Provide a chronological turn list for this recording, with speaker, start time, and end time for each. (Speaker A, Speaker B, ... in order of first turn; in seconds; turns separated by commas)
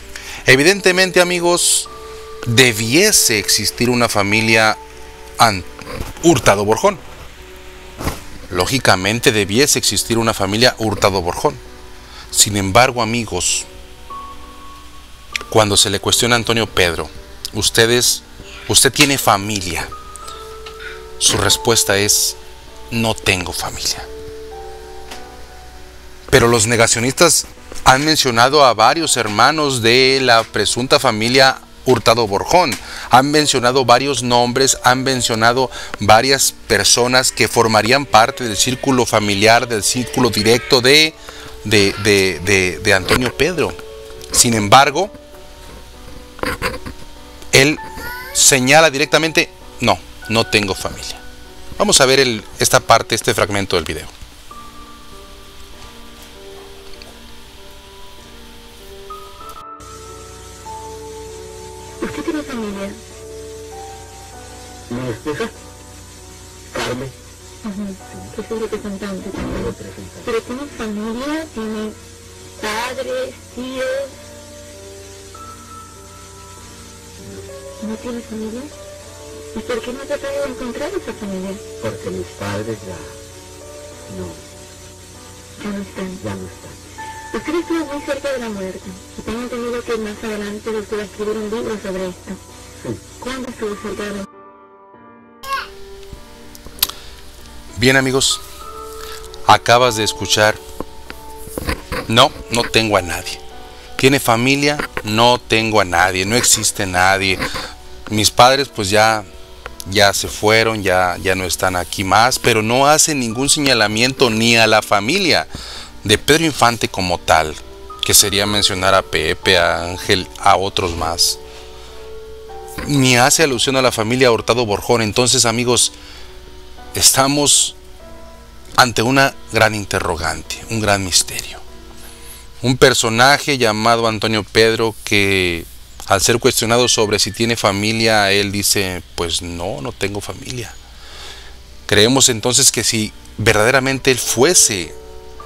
Speaker A: 0.5-1.9, Speaker A: 2.4-4.8, Speaker A: 5.4-5.7, Speaker A: 6.2-7.0, Speaker A: 8.5-11.6, Speaker A: 12.3-13.7, Speaker A: 15.5-19.9, Speaker A: 21.2-22.4, Speaker A: 22.9-24.1, Speaker A: 26.3-43.8, Speaker A: 44.3-45.1, Speaker A: 47.5-47.8, Speaker A: 48.3-51.2, Speaker A: 51.8-54.1, Speaker B: 62.0-63.0, Speaker C: 64.9-65.5, Speaker C: 66.7-67.1, Speaker B: 67.6-69.7, Speaker C: 69.5-70.3, Speaker B: 70.2-72.0, Speaker B: 72.6-74.2, Speaker C: 77.2-77.5, Speaker B: 77.8-78.7, Speaker B: 79.5-81.6, Speaker C: 81.8-83.2, Speaker C: 84.1-84.4, Speaker B: 85.6-86.2, Speaker C: 86.2-86.8, Speaker B: 87.3-92.4, Speaker B: 93.2-94.3, Speaker A: 97.8-98.4, Speaker A: 99.5-100.6, Speaker A: 102.1-103.4, Speaker A: 104.0-107.4, Speaker A: 108.1-109.3, Speaker A: 109.8-115.5, Speaker A: 116.0-121.4, Speaker A: 122.8-125.9, Speaker A: 126.9-127.8, Speaker A: 128.8-131.6, Speaker A: 132.6-140.8, Speaker A: 141.9-144.9